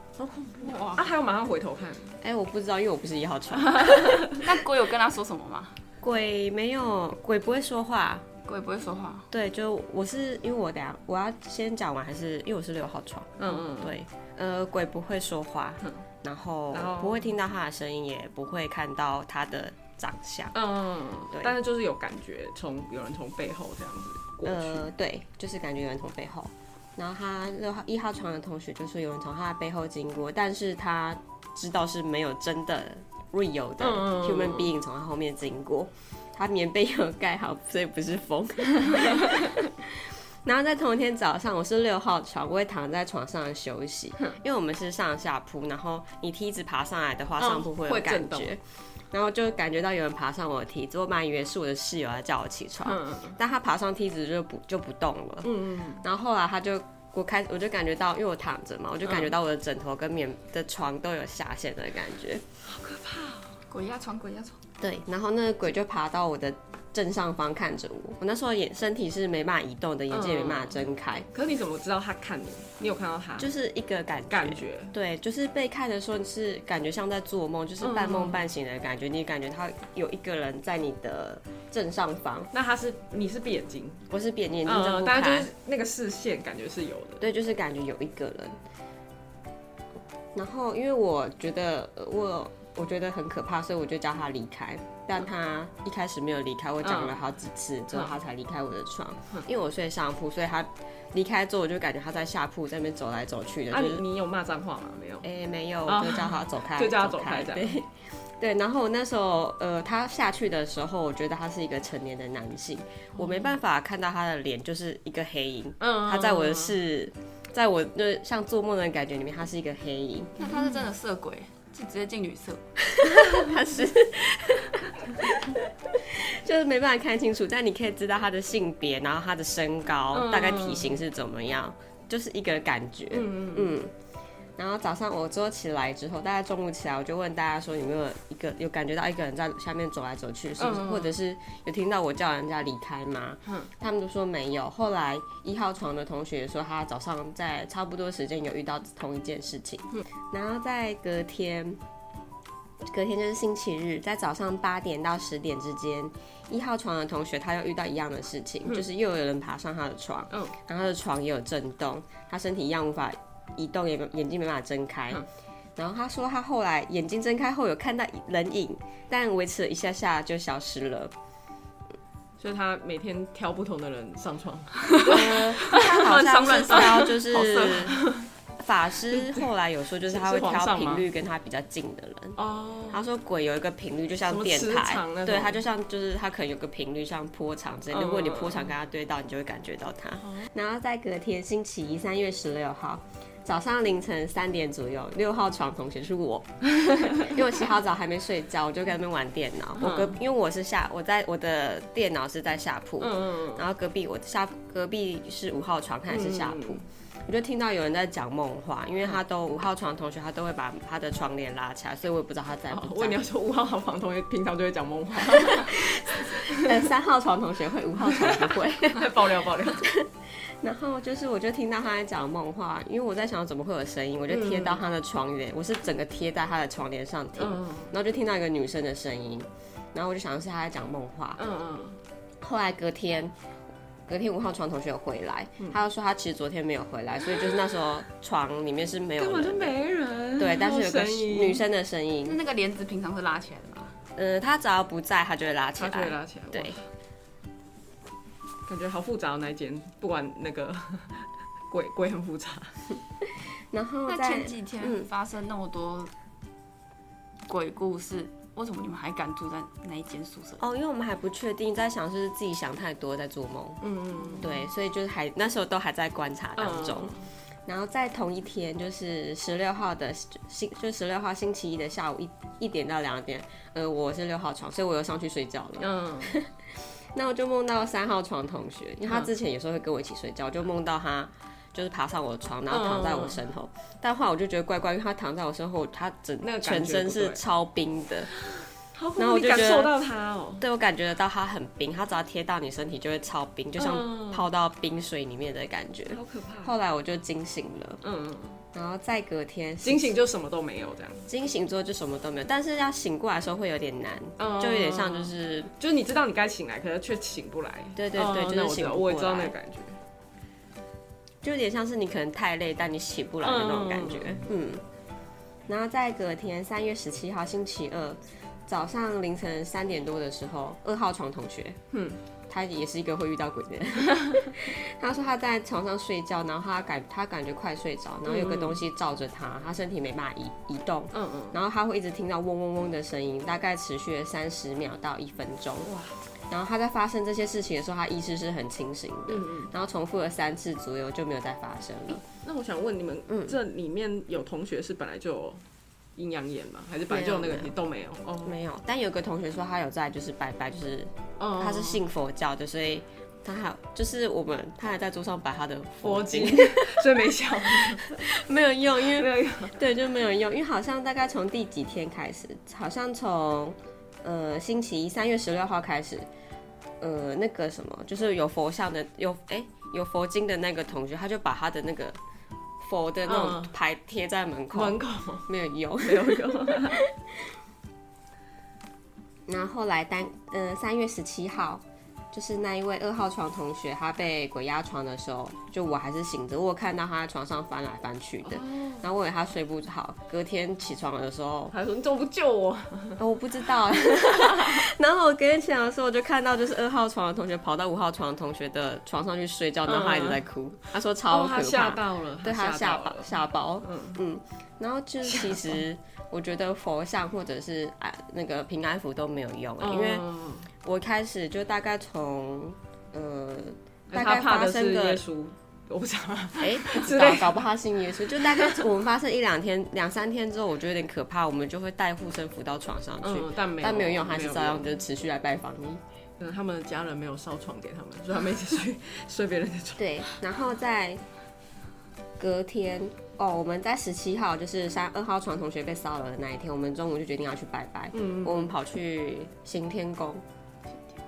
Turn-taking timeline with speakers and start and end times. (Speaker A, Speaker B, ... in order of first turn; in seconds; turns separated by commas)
Speaker A: 0.2-1.1, Speaker B: 0.4-2.2, Speaker C: 2.2-4.3, Speaker B: 3.7-4.3, Speaker A: 4.3-5.8, Speaker C: 6.0-8.3, Speaker A: 8.4-9.3, Speaker C: 9.3-20.6, Speaker B: 13.4-13.9, Speaker B: 16.7-17.3, Speaker B: 20.5-24.9, Speaker C: 24.4-62.4, Speaker B: 33.8-34.7, Speaker B: 47.4-48.5, Speaker B: 52.8-53.4, Speaker B: 55.4-56.0, Speaker B: 59.0-59.3, Speaker B: 62.6-63.6, Speaker A: 63.7-64.6, Speaker C: 64.8-71.3, Speaker B: 70.1-73.5, Speaker C: 73.4-82.5, Speaker B: 74.3-74.9, Speaker B: 77.8-78.5, Speaker B: 82.5-84.0, Speaker C: 84.1-85.5, Speaker B: 84.7-87.2, Speaker C: 87.2-88.6, Speaker C: 90.3-104.0, Speaker B: 96.8-97.2, Speaker B: 97.9-98.2, Speaker B: 103.7-105.2, Speaker C: 105.2-120.3, Speaker B: 105.8-107.8, Speaker B: 113.2-113.5, Speaker B: 115.8-116.8, Speaker A: 120.4-122.6, Speaker C: 122.9-133.9, Speaker B: 130.1-131.0, Speaker B: 133.1-133.8, Speaker C: 134.6-151.8, Speaker B: 140.6-141.2, Speaker C: 152.9-165.2, Speaker B: 160.3-160.6, Speaker C: 165.8-171.1, Speaker B: 172.4-178.3, Speaker C: 175.0-178.1, Speaker A: 175.9-177.1, Speaker C: 178.6-182.4, Speaker B: 179.1-179.4, Speaker B: 180.1-181.1, Speaker B: 182.4-183.0, Speaker C: 182.9-213.2, Speaker B: 184.2-185.6, Speaker B: 187.9-188.7, Speaker B: 190.2-190.5, Speaker B: 196.8-197.2, Speaker B: 199.8-200.2, Speaker B: 203.0-203.7, Speaker B: 206.1-206.8, Speaker B: 212.7-216.6, Speaker C: 215.3-231.4, Speaker B: 218.1-219.9, Speaker B: 224.3-224.8, Speaker B: 227.4-227.9, Speaker B: 231.4-232.0, Speaker C: 232.4-233.3, Speaker C: 234.1-239.8, Speaker B: 239.2-241.6, Speaker C: 240.4-242.4, Speaker A: 242.2-243.9, Speaker C: 244.2-246.8, Speaker B: 245.8-246.9, Speaker B: 248.7-252.7, Speaker C: 253.2-255.1, Speaker A: 254.1-256.1, Speaker A: 257.5-260.6, Speaker C: 260.6-263.8, Speaker B: 263.8-264.6, Speaker C: 264.4-288.3, Speaker B: 266.6-267.3, Speaker B: 275.8-276.3, Speaker B: 282.7-283.4, Speaker B: 286.4-287.4, Speaker B: 288.9-290.6, Speaker C: 289.2-289.9, Speaker C: 290.6-298.0, Speaker B: 293.8-294.4, Speaker B: 296.1-296.7, Speaker B: 298.0-298.6, Speaker C: 298.7-300.1, Speaker B: 299.8-301.3, Speaker C: 301.3-305.7, Speaker B: 304.4-310.0, Speaker C: 307.9-309.5, Speaker C: 311.4-314.8, Speaker B: 313.4-314.4, Speaker C: 315.7-321.8, Speaker B: 321.9-322.2, Speaker C: 322.5-335.9, Speaker B: 328.2-328.8, Speaker B: 331.1-331.6, Speaker B: 335.8-336.2, Speaker C: 336.5-342.2, Speaker B: 339.3-339.7, Speaker B: 342.4-345.6, Speaker C: 343.3-343.6, Speaker B: 346.1-348.6, Speaker C: 347.1-347.7, Speaker C: 348.4-357.0, Speaker B: 351.4-352.0, Speaker B: 356.0-358.0, Speaker C: 358.1-366.3, Speaker B: 359.1-359.8, Speaker C: 367.0-372.2, Speaker C: 372.8-377.4, Speaker B: 373.2-373.7, Speaker B: 374.7-375.5, Speaker B: 376.0-377.0, Speaker C: 379.5-391.7, Speaker B: 388.4-389.1, Speaker B: 391.7-393.2, Speaker C: 393.2-410.2, Speaker B: 399.8-400.4, Speaker B: 401.3-404.2, Speaker B: 405.2-405.7, Speaker B: 409.8-410.7, Speaker C: 410.8-415.2, Speaker B: 414.1-417.7, Speaker C: 416.6-426.0, Speaker B: 418.5-418.8, Speaker B: 423.2-424.9, Speaker B: 426.4-430.4, Speaker C: 430.0-431.2, Speaker C: 432.4-440.4, Speaker B: 438.1-438.7